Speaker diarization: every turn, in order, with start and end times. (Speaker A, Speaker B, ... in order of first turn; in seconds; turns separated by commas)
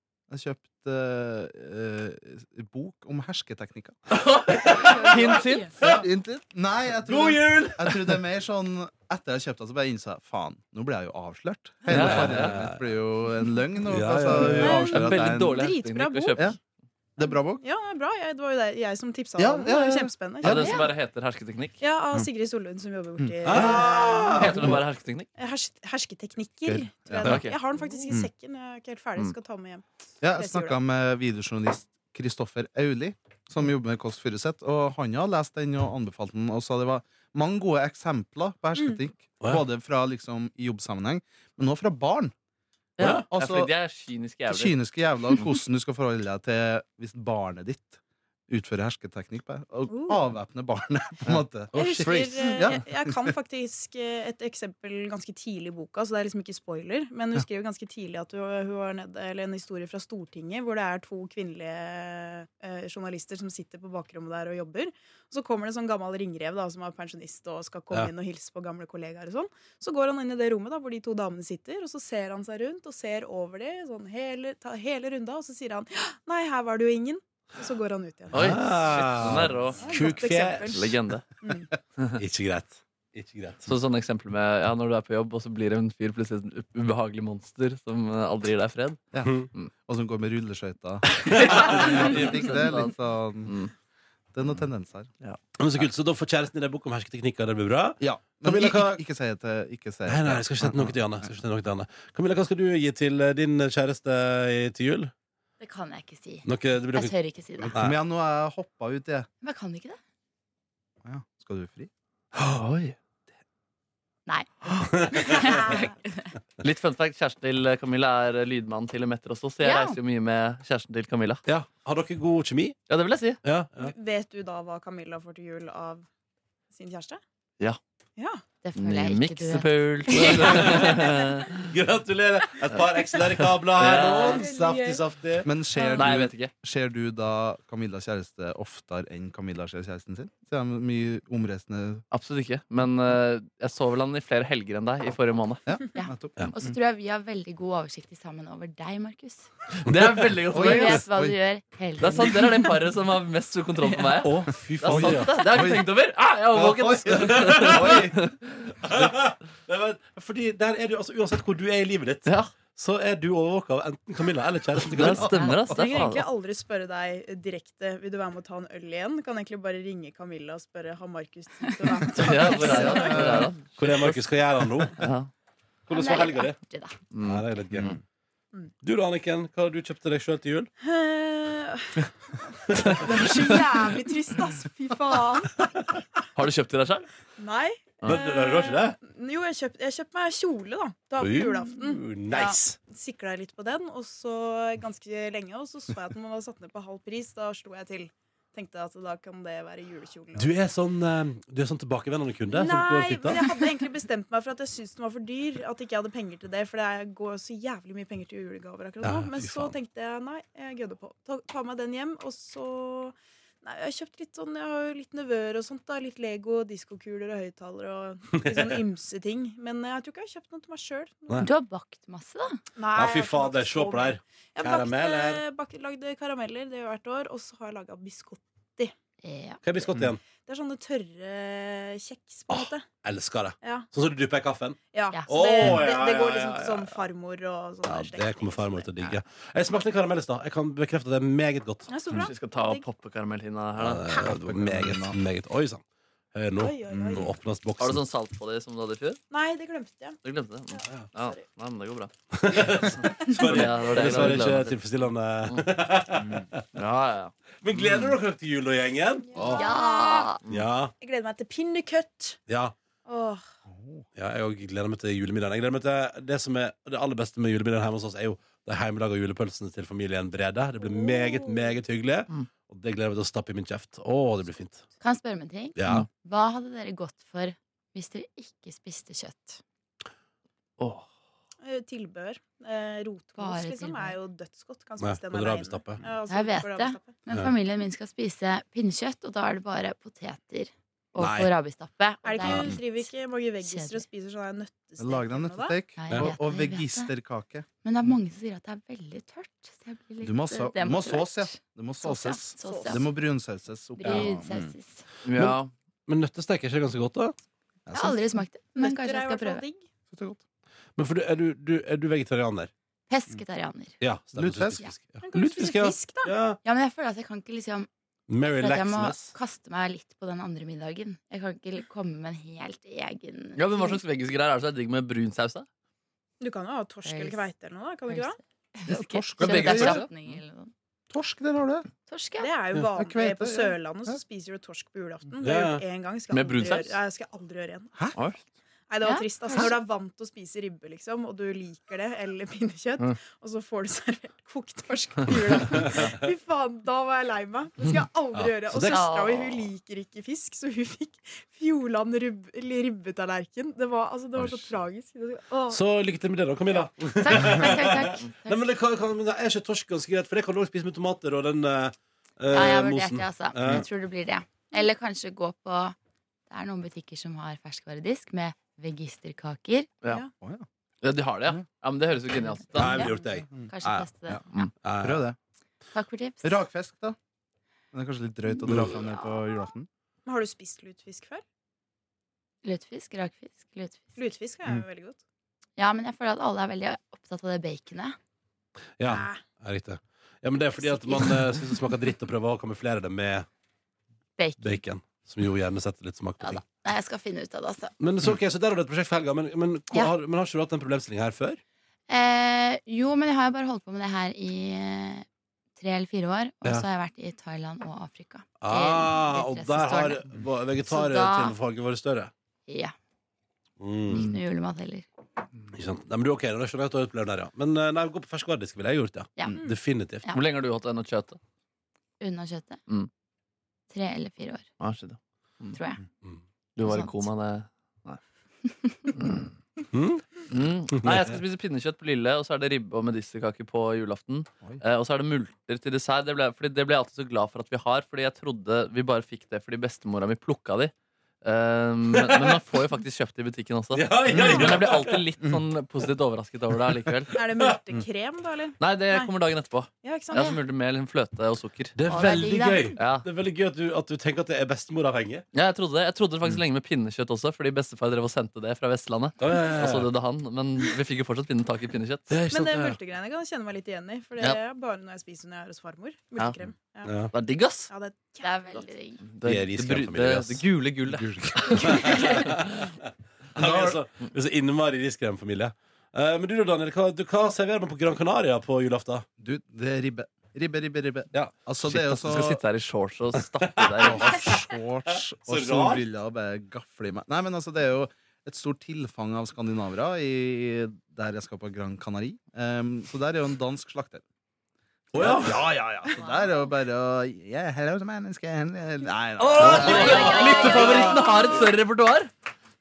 Speaker A: 0.3-4.0, Speaker B: 4.1-5.7, Speaker C: 4.5-5.2, Speaker A: 4.7-15.6, Speaker C: 7.0-8.2, Speaker B: 11.9-12.6, Speaker C: 11.9-12.8, Speaker C: 13.9-15.1, Speaker B: 14.4-16.5, Speaker D: 14.6-16.5, Speaker A: 17.2-17.6, Speaker D: 17.6-20.9, Speaker A: 19.4-20.8, Speaker B: 20.4-21.8, Speaker D: 21.8-24.5, Speaker A: 23.2-24.8, Speaker C: 23.4-24.8, Speaker B: 24.4-25.3, Speaker D: 25.4-30.8, Speaker A: 26.6-27.4, Speaker B: 27.2-27.6, Speaker A: 30.2-42.3, Speaker D: 38.8-39.0, Speaker B: 43.0-44.8, Speaker C: 43.0-43.2, Speaker A: 43.0-43.7, Speaker A: 44.5-53.4, Speaker D: 49.9-50.2, Speaker D: 51.7-78.5, Speaker C: 51.8-52.3, Speaker B: 78.3-79.9, Speaker C: 78.3-80.9, Speaker D: 79.8-80.9, Speaker B: 80.7-81.2, Speaker D: 81.4-81.7, Speaker C: 82.2-83.7, Speaker B: 83.7-89.0, Speaker A: 89.1-93.6, Speaker C: 89.2-89.5, Speaker B: 91.2-93.7, Speaker C: 91.4-91.8, Speaker A: 94.3-95.1, Speaker C: 95.6-99.0, Speaker A: 98.0-101.3, Speaker C: 100.1-105.1, Speaker E: 105.6-107.8, Speaker C: 106.5-107.2, Speaker A: 107.6-109.3, Speaker C: 107.7-108.0, Speaker E: 109.4-110.0, Speaker A: 111.0-111.9, Speaker B: 112.3-113.0, Speaker E: 114.3-116.3, Speaker C: 115.0-115.5, Speaker B: 116.6-121.4, Speaker E: 119.6-120.0, Speaker C: 121.5-122.8, Speaker B: 122.9-123.4, Speaker C: 123.4-123.9, Speaker D: 123.8-126.1, Speaker D: 126.7-127.2, Speaker D: 128.2-128.4, Speaker E: 128.6-130.8, Speaker B: 128.8-131.5, Speaker C: 131.6-135.5, Speaker B: 132.7-134.4, Speaker D: 133.8-135.0, Speaker A: 135.4-142.0, Speaker D: 135.8-136.1, Speaker B: 135.9-136.5, Speaker B: 142.1-145.6, Speaker A: 145.7-146.8, Speaker E: 146.0-149.5, Speaker B: 149.8-151.1, Speaker C: 149.9-150.2, Speaker A: 150.5-151.4, Speaker E: 150.5-152.6, Speaker B: 152.0-158.6, Speaker C: 154.2-155.3, Speaker A: 154.8-155.9, Speaker A: 156.5-158.2, Speaker C: 157.1-158.1, Speaker C: 158.8-165.3, Speaker B: 162.2-162.5, Speaker B: 164.9-166.3, Speaker E: 165.3-165.7, Speaker D: 165.7-173.3, Speaker B: 172.2-174.3, Speaker A: 172.9-173.5, Speaker C: 173.8-175.0, Speaker B: 174.9-175.3, Speaker C: 175.9-176.6, Speaker E: 175.9-177.0, Speaker B: 177.1-178.0, Speaker C: 177.2-177.9, Speaker C: 178.8-180.7, Speaker D: 180.8-182.1, Speaker C: 182.7-183.2, Speaker D: 182.8-185.6, Speaker B: 182.9-183.2, Speaker B: 186.3-187.1, Speaker D: 187.4-192.1, Speaker C: 188.0-189.0, Speaker C: 191.2-192.8, Speaker E: 192.3-192.6, Speaker D: 192.9-200.6, Speaker C: 200.3-203.6, Speaker D: 202.5-221.5, Speaker C: 209.0-209.8, Speaker C: 218.3-218.8, Speaker E: 221.4-222.6, Speaker D: 222.8-228.9, Speaker C: 222.9-225.4, Speaker E: 229.2-229.6, Speaker C: 229.6-230.2, Speaker D: 230.4-232.8, Speaker C: 232.5-237.0, Speaker D: 233.6-233.9, Speaker D: 234.9-238.9, Speaker C: 237.8-242.0, Speaker D: 241.9-242.9, Speaker B: 242.1-244.1, Speaker C: 243.8-245.8, Speaker A: 244.1-245.2, Speaker C: 246.3-248.0, Speaker D: 246.6-247.3, Speaker A: 246.9-247.3, Speaker B: 247.8-249.2, Speaker D: 249.3-250.2, Speaker B: 250.2-254.8, Speaker D: 250.7-251.4, Speaker C: 252.3-256.6, Speaker A: 256.2-256.5, Speaker B: 256.7-257.3, Speaker C: 257.6-259.6, Speaker A: 257.8-258.1, Speaker D: 259.3-260.4, Speaker E: 259.4-260.4, Speaker C: 260.5-260.9, Speaker D: 261.0-262.4, Speaker C: 262.5-262.7, Speaker D: 263.1-263.4, Speaker A: 263.7-264.0, Speaker C: 264.2-274.9, Speaker D: 270.8-271.7, Speaker E: 275.0-279.6, Speaker C: 275.8-276.1, Speaker B: 280.8-281.1, Speaker D: 281.6-287.2, Speaker E: 283.4-284.2, Speaker C: 285.0-286.0, Speaker E: 286.3-293.1, Speaker C: 291.2-291.5, Speaker D: 292.2-295.8, Speaker C: 292.4-292.7, Speaker E: 293.6-294.0, Speaker A: 295.0-297.7, Speaker E: 296.0-297.1, Speaker E: 297.8-303.0, Speaker A: 300.2-304.7, Speaker D: 302.6-303.0, Speaker E: 304.0-305.0, Speaker C: 304.0-304.3, Speaker B: 305.2-305.7, Speaker C: 305.4-307.3, Speaker A: 307.9-308.4, Speaker E: 307.9-309.6, Speaker D: 308.8-309.9, Speaker A: 310.1-310.4, Speaker C: 311.0-312.7, Speaker E: 313.1-314.0, Speaker C: 314.0-316.6, Speaker A: 314.4-314.8, Speaker D: 315.2-316.4, Speaker E: 316.6-317.9, Speaker C: 318.3-319.3, Speaker E: 318.5-324.0, Speaker B: 323.6-325.7, Speaker D: 326.4-328.4, Speaker E: 327.1-327.5, Speaker E: 328.1-330.7, Speaker A: 328.9-330.1, Speaker B: 329.4-330.3, Speaker A: 331.1-331.9, Speaker E: 332.1-332.5, Speaker D: 332.4-337.9, Speaker A: 332.9-334.2, Speaker C: 335.4-335.8, Speaker B: 336.3-337.0, Speaker B: 338.1-338.4, Speaker D: 338.9-355.8, Speaker E: 339.0-339.7, Speaker C: 348.3-349.1, Speaker E: 348.9-349.7, Speaker C: 354.4-354.7, Speaker C: 355.7-363.9, Speaker E: 357.2-358.7, Speaker E: 362.5-366.0, Speaker E: 366.5-369.9, Speaker A: 370.4-370.7, Speaker B: 371.0-373.0, Speaker C: 372.7-373.5, Speaker E: 372.8-374.7, Speaker A: 373.5-374.4, Speaker C: 374.8-375.2, Speaker A: 375.0-375.4, Speaker E: 375.9-376.6, Speaker A: 376.4-377.2, Speaker A: 377.9-379.9, Speaker E: 378.6-379.4, Speaker D: 380.3-381.4, Speaker E: 382.6-384.3, Speaker D: 384.2-385.2, Speaker E: 385.8-388.2, Speaker C: 389.0-393.5, Speaker D: 389.1-389.4, Speaker E: 390.8-391.9, Speaker E: 394.4-394.8, Speaker C: 394.6-396.6, Speaker E: 396.4-397.9, Speaker C: 398.0-401.6, Speaker E: 402.1-405.3, Speaker E: 405.8-410.2, Speaker C: 408.6-412.3, Speaker E: 410.9-411.6, Speaker E: 412.7-412.9, Speaker C: 413.8-414.3, Speaker E: 414.1-415.1, Speaker B: 414.1-414.4, Speaker C: 415.7-420.3, Speaker E: 419.4-419.6, Speaker B: 420.3-421.4, Speaker E: 422.2-422.8, Speaker E: 423.9-424.7, Speaker B: 424.8-425.8, Speaker E: 425.7-426.0, Speaker B: 426.8-428.2, Speaker E: 426.8-427.2, Speaker E: 428.8-429.1, Speaker B: 429.1-429.5, Speaker C: 429.9-431.4, Speaker B: 430.5-447.3, Speaker C: 443.9-445.2, Speaker A: 444.3-444.6, Speaker D: 444.4-444.7, Speaker D: 447.3-449.3, Speaker B: 448.8-452.0, Speaker D: 450.0-450.6, Speaker C: 452.0-455.4, Speaker E: 452.1-453.0, Speaker B: 453.0-453.3, Speaker B: 455.5-462.4, Speaker C: 459.4-460.1, Speaker C: 462.3-463.0, Speaker D: 462.5-467.2, Speaker C: 467.0-467.3, Speaker B: 467.3-467.9, Speaker D: 467.9-468.9, Speaker E: 468.4-469.2, Speaker B: 469.2-472.6, Speaker C: 469.4-470.6, Speaker A: 471.2-471.7, Speaker C: 471.8-472.9, Speaker A: 473.6-474.0, Speaker C: 473.6-479.3, Speaker A: 479.4-482.6, Speaker B: 481.8-484.6, Speaker C: 483.8-484.4, Speaker A: 484.0-494.2, Speaker C: 485.1-486.0, Speaker A: 495.1-501.2, Speaker C: 495.1-495.7, Speaker B: 499.4-502.3, Speaker C: 499.6-501.0, Speaker E: 499.8-501.2, Speaker D: 500.2-501.2